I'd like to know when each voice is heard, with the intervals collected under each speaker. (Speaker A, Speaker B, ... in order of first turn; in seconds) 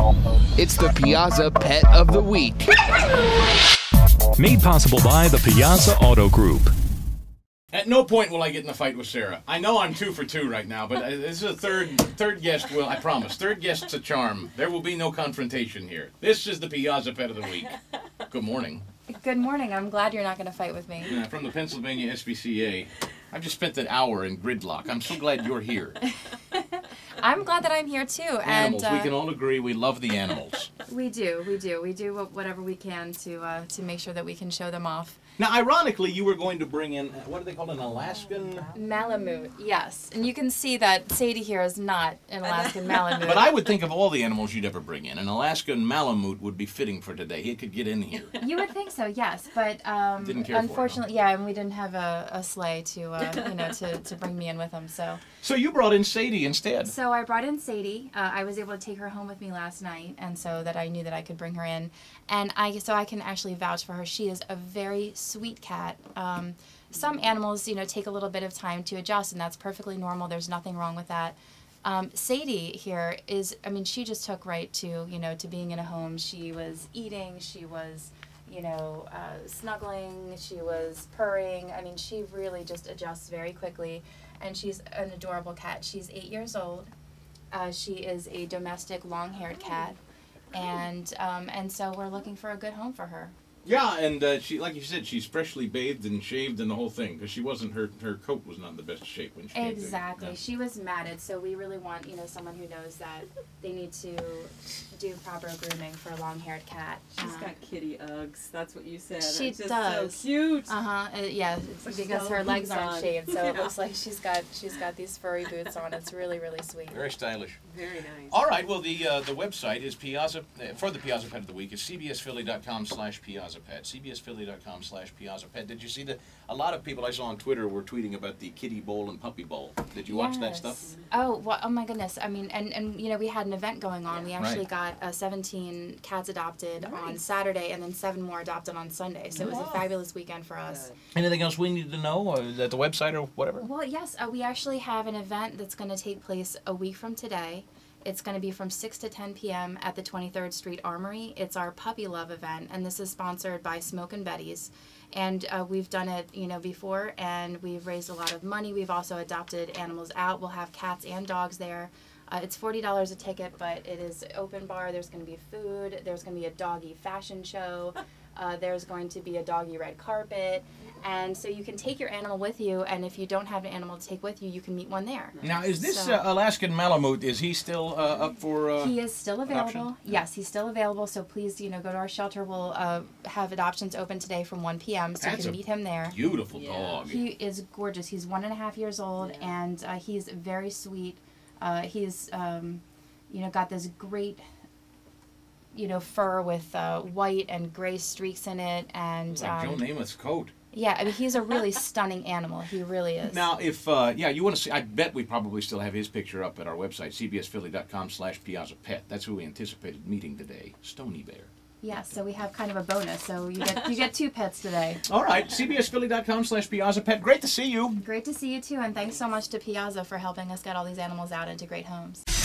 Speaker A: 0.6-2.7
Speaker B: 4.4-6.7
Speaker C: 7.7-18.9, 21.1-26.0, 28.4-30.7, 35.4-38.7, 43.2-48.4, 50.2-51.0, 55.4-56.9, 93.7-100.4, 116.9-117.6, 118.3-130.9, 134.4-134.6, 139.4-139.9, 141.1-143.7, 175.4-180.2, 185.2-187.2, 199.3-200.5, 203.2-211.5, 215.1-218.0
Speaker D: 19.1-21.2, 26.2-29.1, 30.9-35.2, 38.7-43.5, 48.4-55.2, 56.8-86.9, 87.5-90.0, 90.5-93.3, 99.5-107.5, 109.2-117.0, 130.0-140.9, 143.6-176.2, 178.8-186.2, 187.1-194.4, 195.7-199.8, 200.7-203.5, 211.8-215.0, 218.0-222.2
Speaker E: 38.0-38.9, 42.4-43.3, 107.2-110.7, 111.7-113.7, 117.7-118.4, 130.8-131.2, 136.8-137.3, 139.3-139.7, 140.7-141.0, 186.5-187.0, 189.2-189.5